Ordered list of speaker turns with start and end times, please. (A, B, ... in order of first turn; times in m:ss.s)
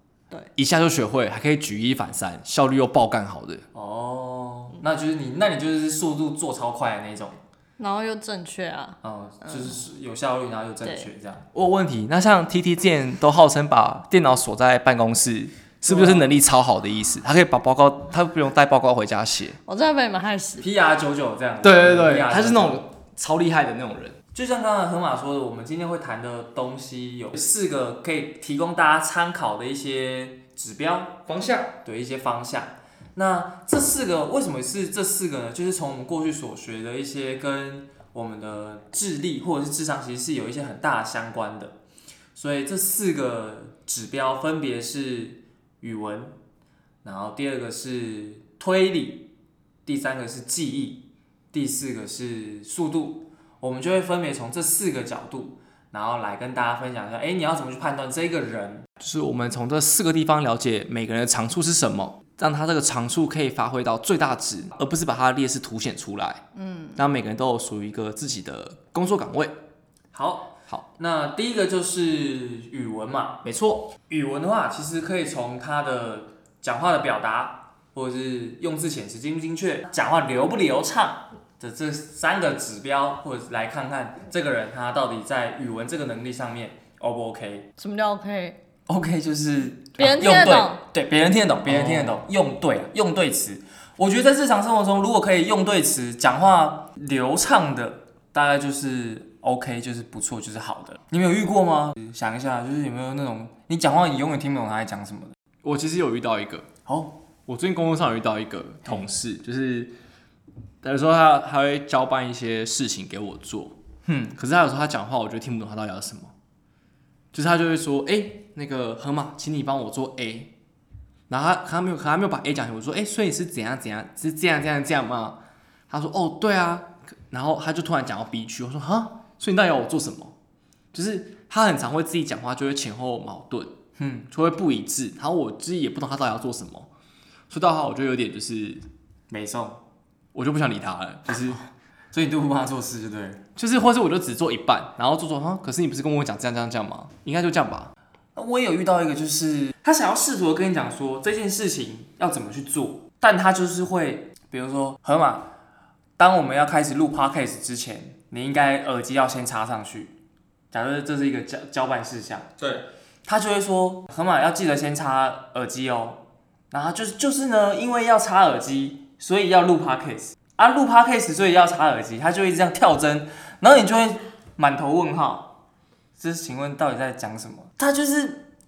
0:00.6-0:03.6 A
0:03.7-0:07.4 B
0:07.8-0:09.8 C
0:09.0-0:11.5 B
0:11.5-0:19.6 A
0:15.9-0:16.3 B
0:19.7-0:20.7 C
0:20.6-0:22.8 B
0:21.6-0:24.2 A
0:24.3-0:31.2 B
0:31.3-0:31.8 A
0:31.8-0:41.8 B
0:42.4-0:46.4 B
0:47.0-0:49.3 B
0:49.9-0:58.9 B
0:59.0-1:06.4 A
1:06.6-1:07.0 C
1:07.0-1:09.6 A
1:10.1-1:13.4 B
1:13.4-1:13.9 A
1:14.1-1:27.7 B
1:27.8-1:28.6 C
1:28.9-1:45.4 B
1:30.0-1:30.8 C
1:31.7-1:32.2 A
1:45.6-1:46.7 A
1:46.9-1:47.2 B
1:47.5-1:49.9 A
1:50.8-1:53.8 A
1:54.1-1:54.4 B
1:54.4-1:56.3 A
1:57.3-2:00.5 A
2:01.3-2:10.4 A
2:10.9-2:13.7 A
2:14.0-2:14.3 B
2:14.3-2:16.9 A
2:17.5-2:18.8 A
2:19.3-2:19.8 B
2:20.3-2:21.6 A
2:22.1-2:23.4 B
2:23.6-2:27.9 A
2:28.4-2:35.5 B
2:36.2-2:40.2 B
2:40.7-2:42.5 B
2:42.6-2:42.8 A
2:43.3-2:55.5 B
2:56.2-2:58.5 B